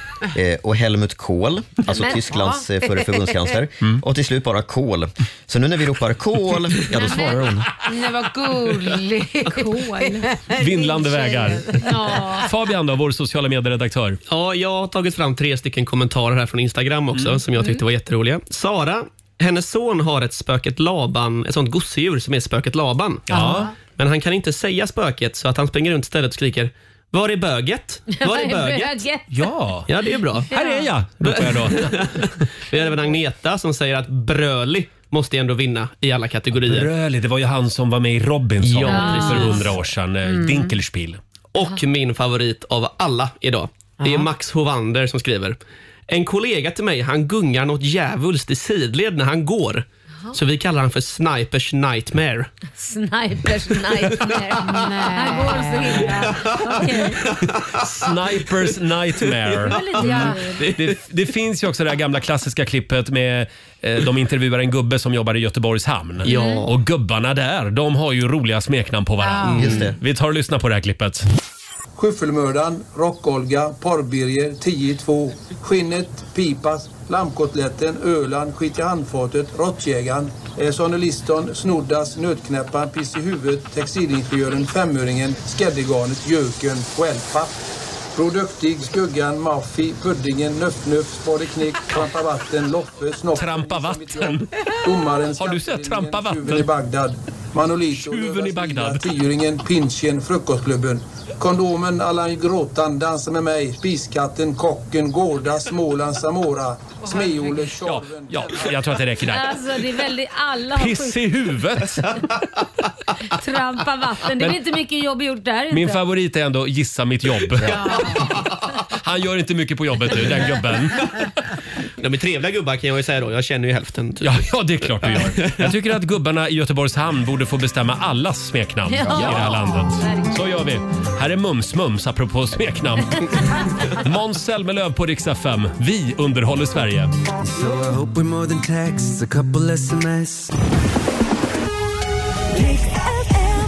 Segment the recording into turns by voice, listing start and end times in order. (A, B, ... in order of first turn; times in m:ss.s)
0:00.3-0:07.8 A
0:02.0-0:02.6 B
0:06.9-0:07.4 C
0:07.8-0:12.5 B
0:09.5-0:10.3 C
0:10.6-0:14.2 D
0:11.8-0:12.5 C
0:14.3-0:29.0 E
0:17.2-0:17.4 D
0:23.3-0:23.7 D
0:23.3-0:23.7 B
0:28.1-0:29.3 C
0:29.3-0:29.9 D
0:29.9-0:30.5 E
0:30.5-0:32.3 D
0:30.5-0:30.9 C
0:31.2-0:36.9 E
0:36.5-0:41.2 D
0:38.6-0:39.7 E
0:38.9-0:39.5 B
0:38.9-0:39.7 C
0:40.3-0:40.7 B
0:41.5-0:45.6 E
0:44.0-0:44.3 B
0:46.1-0:52.5 E
0:52.7-0:57.2 C
0:54.6-0:56.3 B
0:56.2-0:56.6 E
0:57.2-0:57.8 E
0:57.8-1:11.3 D
0:59.6-1:00.6 C
0:59.7-1:00.9 E
1:00.0-1:00.3 B
1:06.3-1:06.7 E
1:06.3-1:06.7 C
1:09.2-1:09.9 B
1:09.5-1:09.9 E
1:09.6-1:10.0 A
1:12.0-1:27.5 F
1:28.2-1:49.0 F
1:33.4-1:34.7 D
1:35.4-1:36.7 D
1:37.9-1:39.1 D
1:47.1-1:47.6 B
1:47.7-1:49.6 D
1:49.2-1:51.2 C
1:50.8-1:52.2 D
1:53.3-1:56.0 C
1:55.7-1:58.2 D
1:57.6-1:58.3 B
1:59.0-2:01.1 D
2:02.0-2:04.4 E
2:04.2-2:17.1 D
2:05.1-2:05.7 E
2:08.9-2:10.4 C
2:13.3-2:13.8 C
2:17.4-2:20.5 G
2:22.7-2:23.4 G